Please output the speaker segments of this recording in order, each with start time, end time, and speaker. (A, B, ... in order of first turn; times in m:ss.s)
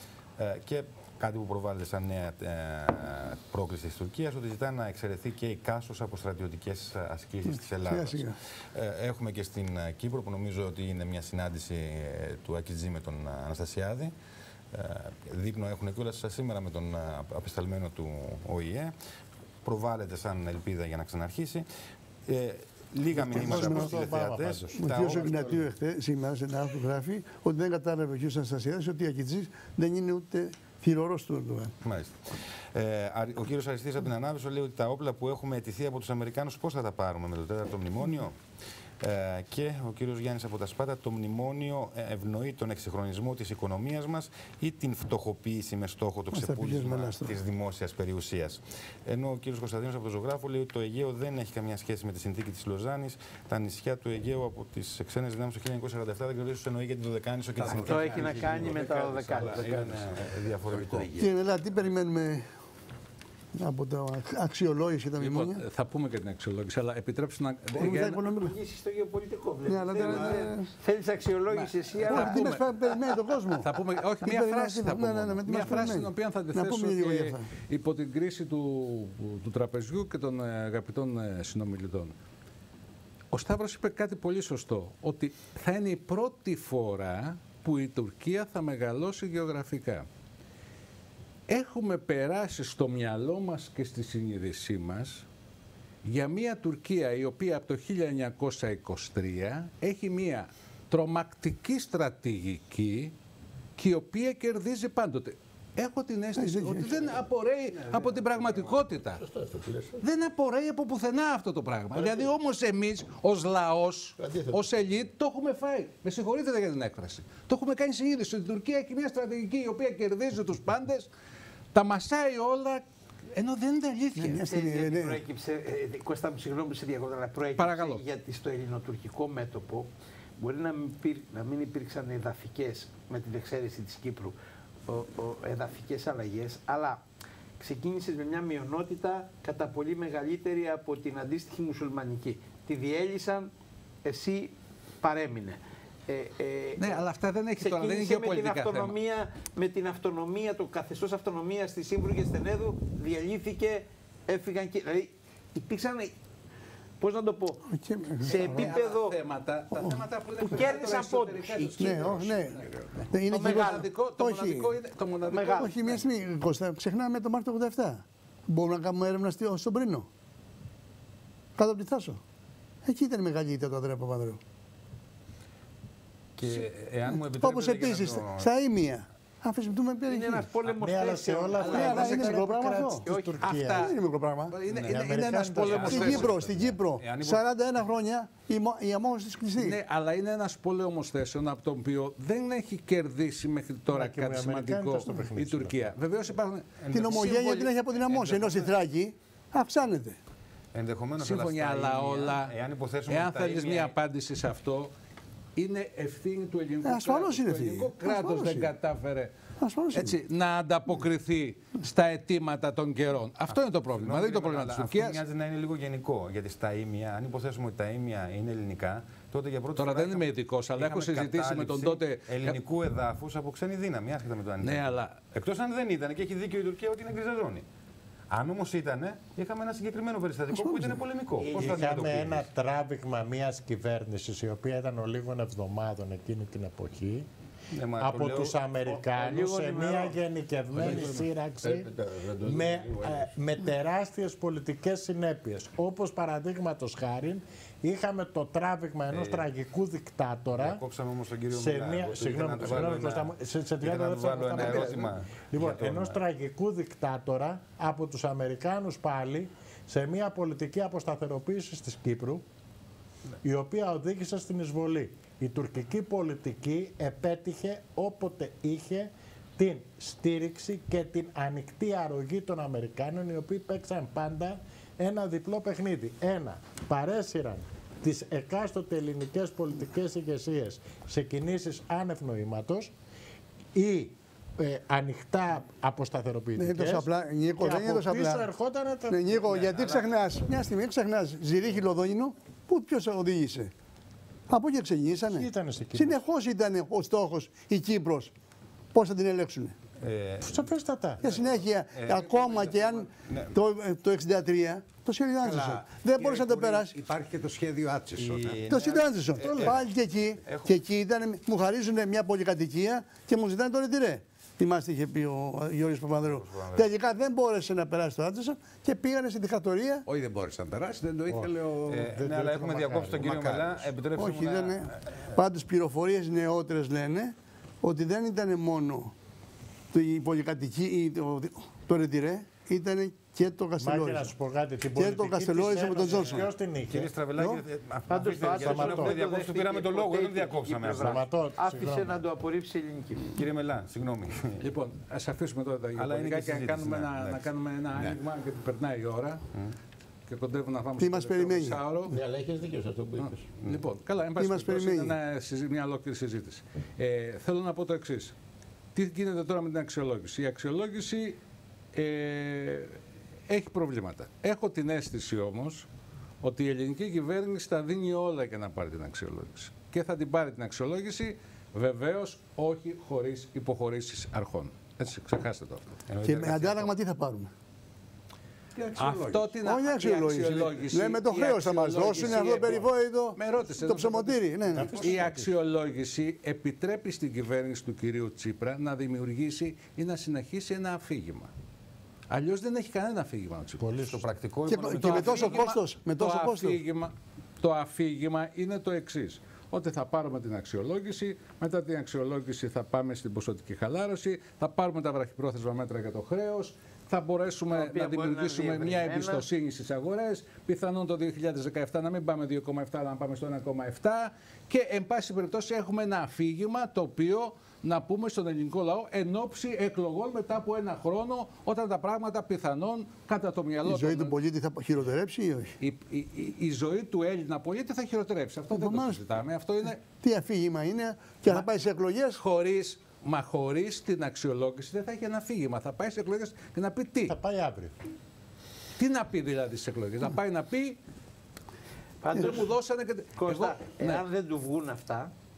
0:00.4-0:14.1 A
0:07.4-0:08.4 B
0:14.7-0:18.9 A
0:19.6-0:21.6 A
0:22.3-0:25.6 A
0:23.1-0:25.1 C
0:23.2-0:23.9 B
0:24.7-0:31.7 B
0:31.8-0:32.2 A
0:32.7-0:38.4 A
0:39.0-1:01.1 A
0:46.3-0:47.4 B
0:57.6-1:00.0 D
0:57.7-0:59.8 E
1:00.6-1:01.4 D
1:01.2-1:02.5 B
1:03.5-1:05.6 B
1:05.2-1:08.2 F
1:07.8-1:08.6 B
1:07.8-1:12.6 E
1:09.7-1:10.7 B
1:10.0-1:10.4 F
1:11.5-1:12.7 F
1:12.0-1:17.5 B
1:13.5-1:22.1 F
1:23.3-1:30.0 F
1:31.5-1:35.2 F
1:36.0-1:43.1 F
1:43.8-1:49.2 F
1:46.4-1:47.1 B
1:47.9-1:50.0 G
1:50.0-2:01.1 F
1:51.9-1:52.3 G
1:54.2-1:55.1 G
2:01.7-2:04.5 F
2:04.1-2:05.2 B
2:04.5-2:14.3 E
2:07.6-2:08.0 F
2:14.9-2:17.0 E
2:17.6-2:23.5 E
2:24.0-2:27.0 E
2:26.8-2:28.9 F
2:27.6-2:36.1 E
2:37.0-2:37.7 E
2:37.7-2:38.7 B
2:38.2-2:39.2 E
2:38.2-2:46.0 F
2:39.7-2:40.0 B
2:40.5-2:42.0 E
2:41.8-2:44.8 B
2:41.9-2:43.0 D
2:43.3-2:43.9 E
2:45.2-2:45.7 E
2:45.4-2:50.1 B
2:51.6-2:52.2 B
2:52.8-2:54.4 B
2:56.4-2:58.5 A
2:56.4-2:56.7 F
2:57.1-3:00.5 B
3:00.1-3:02.5 E
3:00.8-3:03.9 C
3:01.5-3:02.3 F
3:01.7-3:03.0 B
3:03.1-3:03.4 E
3:03.4-3:04.0 F
3:03.6-3:09.8 B
3:04.5-3:06.4 F
3:04.7-3:05.0 A
3:04.9-3:06.5 C
3:05.6-3:07.4 A
3:09.6-3:18.7 F
3:13.9-3:15.9 C
3:16.8-3:17.7 A
3:16.9-3:20.2 B
3:20.7-3:23.9 A
3:21.2-3:22.5 F
3:23.1-3:24.9 F
3:25.6-3:29.3 F
3:26.8-3:28.7 B
3:29.6-3:30.2 B
3:29.9-3:35.2 F
3:33.5-3:47.6 A
3:39.8-3:42.6 F
3:44.6-3:45.2 F
3:48.3-3:52.5 A
3:50.5-3:51.0 B
3:51.4-3:52.1 E
3:51.5-3:57.3 C
3:57.7-3:58.6 A
3:58.0-4:01.9 C
3:58.8-4:00.2 E
4:00.7-4:03.3 G
4:00.8-4:01.1 A
4:02.4-4:10.8 C
4:09.1-4:09.5 A
4:10.6-4:16.2 A
4:11.5-4:22.4 C
4:23.4-4:42.9 C
4:43.7-4:49.5 C
4:46.6-4:48.5 B
4:49.1-4:53.7 B
4:49.5-4:50.4 A
4:54.5-4:58.3 B
4:55.3-4:56.2 C
4:58.9-4:59.7 B
5:00.0-5:03.6 A
5:00.4-5:01.3 C
5:01.2-5:07.0 B
5:05.4-5:08.6 D
5:08.2-5:09.9 A
5:08.7-5:20.0 B
5:09.4-5:09.8 C
5:10.4-5:10.7 A
5:16.2-5:16.9 A
5:20.0-5:21.9 D
5:21.3-5:23.8 C
5:21.9-5:25.0 A
5:24.1-5:29.1 B
5:29.9-5:34.3 B
5:33.8-5:37.1 C
5:34.9-5:36.4 B
5:36.1-5:41.2 A
5:37.3-5:37.6 B
5:38.1-5:43.3 E
5:38.5-5:39.2 C
5:41.0-5:42.2 C
5:43.3-5:44.6 A
5:44.6-5:49.4 F
5:46.0-5:47.4 A
5:50.3-5:52.2 F
5:51.0-5:51.8 B
5:52.0-5:53.4 G
5:53.2-5:58.3 F
5:54.4-5:55.2 B
5:58.9-6:01.4 F
6:01.9-6:03.0 F
6:03.5-6:05.9 F
6:06.4-6:16.0 F
6:16.1-6:16.9 A
6:16.2-6:17.5 B
6:18.7-6:19.6 D
6:19.0-6:31.5 F
6:19.6-6:25.3 B
6:24.7-6:25.5 C
6:32.3-6:33.9 F
6:33.8-6:34.2 C
6:34.0-6:35.7 A
6:34.7-6:36.8 B
6:34.9-7:04.4 F
6:47.7-6:49.4 E
7:03.8-7:05.7 B
7:05.8-7:10.1 F
7:08.7-7:09.2 B
7:10.1-7:12.4 B
7:12.3-7:17.4 F
7:17.3-7:17.9 C
7:19.0-7:21.0 F
7:22.2-7:22.7 E
7:22.3-7:24.2 F
7:23.4-7:25.3 E